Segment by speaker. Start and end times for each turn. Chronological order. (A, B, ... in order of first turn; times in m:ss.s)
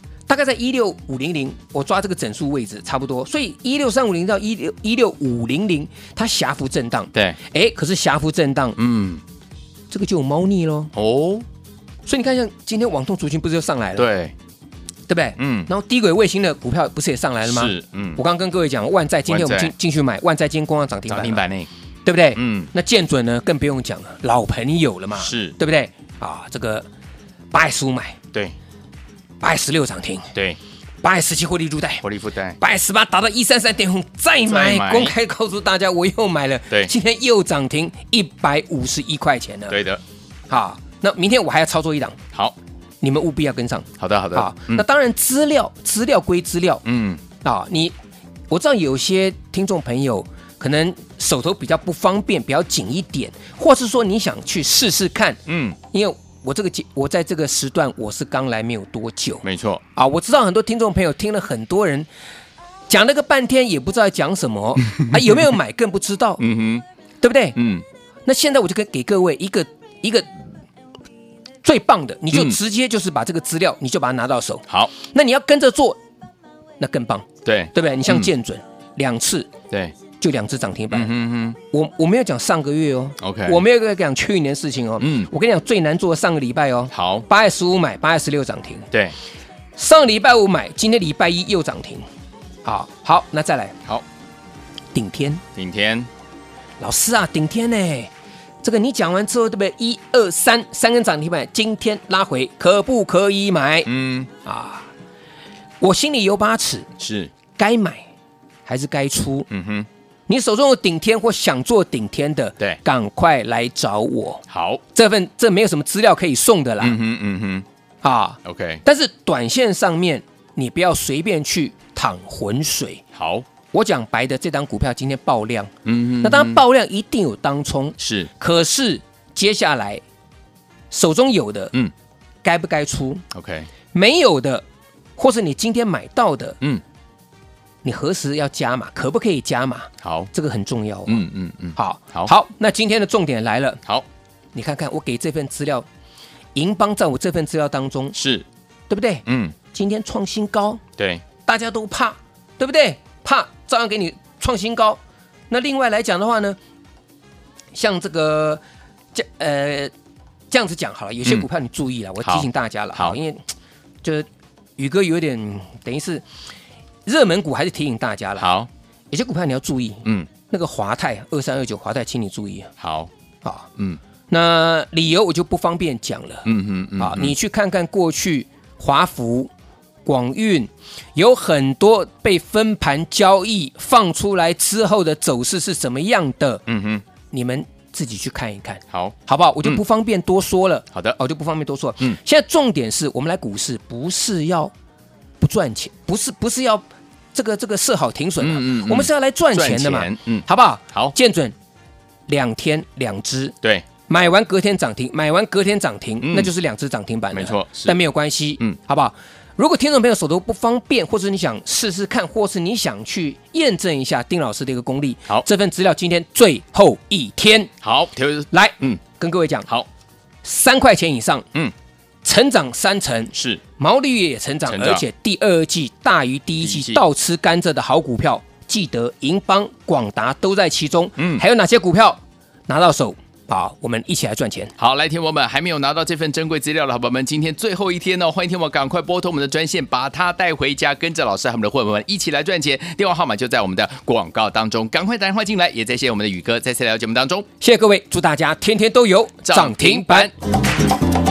0:00.3-0:08.8 A
0:07.1-0:07.4 B
0:08.8-0:09.2 B
0:09.9-0:10.9 A
0:10.9-0:11.5 B
0:12.1-0:14.1 A
0:14.0-0:14.4 B
0:15.1-0:21.4 A
0:15.4-0:15.7 B
0:17.4-0:18.2 B
0:19.3-0:19.7 B
0:21.1-0:21.7 B
0:22.0-0:26.9 A
0:22.4-0:22.7 B
0:25.2-0:25.6 B
0:27.5-0:28.2 A
0:29.4-0:30.3 A
0:30.4-0:30.6 B
0:31.0-0:32.0 A
0:32.0-0:32.6 B
0:32.6-0:39.8 A
0:34.4-0:35.2 B
0:39.7-0:40.0 B
0:40.5-0:42.2 A
0:43.0-0:46.8 A
0:44.0-0:44.8 B
0:46.8-0:47.2 B
0:47.4-0:48.0 A
0:48.5-0:59.4 A
0:55.5-0:55.8 B
0:59.4-0:59.8 B
1:00.0-1:02.1 A
1:02.9-1:06.4 A
1:06.4-1:06.8 B
1:07.2-1:07.6 A
1:07.6-1:07.8 B
1:08.3-1:10.3 A
1:11.6-1:16.0 A
1:12.3-1:12.6 B
1:14.7-1:14.9 B
1:16.8-1:19.5 A
1:17.4-1:18.3 B
1:19.7-1:20.0 B
1:20.2-1:28.9 A
1:20.9-1:21.6 B
1:23.2-1:23.6 B
1:25.0-1:25.3 B
1:26.9-1:27.3 B
1:28.9-1:29.2 B
1:29.8-1:32.0 A
1:32.6-1:33.8 A
1:34.9-1:35.4 A
1:35.6-1:36.1 B
1:36.8-1:38.1 A
1:38.6-1:44.9 A
1:43.9-1:44.3 B
1:45.8-1:46.9 A
1:47.0-1:47.3 B
1:47.6-1:48.1 A
1:48.7-1:49.5 A
1:49.5-1:49.9 B
1:50.3-1:57.0 A
1:54.5-1:54.8 B
1:56.8-1:57.7 B
1:58.0-2:03.0 A
1:58.4-1:58.8 B
2:03.2-2:03.5 B
2:03.7-2:10.0 A
2:05.8-2:06.6 B
2:08.0-2:08.3 B
2:10.9-2:11.7 A
2:12.4-2:13.2 A
2:13.3-2:13.7 B
2:13.9-2:14.6 A
2:15.2-2:16.6 A
2:17.8-2:23.8 A
2:20.0-2:20.3 B
2:21.1-2:22.3 B
2:24.5-2:25.9 A
2:26.6-2:28.2 A
2:28.1-2:28.5 B
2:28.9-2:30.8 A
2:29.3-2:29.6 B
2:31.0-2:31.2 B
2:31.4-2:36.6 A
2:37.7-2:38.6 A
2:39.1-2:39.9 A
2:40.5-2:43.5 A
2:42.2-2:43.2 B
2:44.0-2:46.2 A
2:47.1-2:48.6 A
2:48.4-2:48.7 B
2:49.1-2:52.7 A
2:52.8-2:53.1 B
2:53.4-2:53.7 A
2:54.3-2:59.5 A
2:56.4-2:57.4 B
3:00.0-3:06.6 A
3:06.7-3:07.0 B
3:07.3-3:14.7 A
3:08.9-3:09.8 B
3:10.9-3:11.2 B
3:15.4-3:21.6 A
3:18.4-3:21.2 B
3:22.3-3:23.6 A
3:24.1-3:37.7 A
3:26.2-3:26.5 B
3:27.3-3:28.0 B
3:37.8-3:39.0 B
3:38.5-3:39.7 A
3:40.4-3:41.5 A
3:42.2-3:54.7 A
3:43.3-3:43.6 B
3:44.7-3:45.0 B
3:46.6-3:47.0 B
3:51.2-3:51.4 B
3:54.8-4:07.5 B
4:07.6-4:10.3 A
4:09.4-4:10.3 B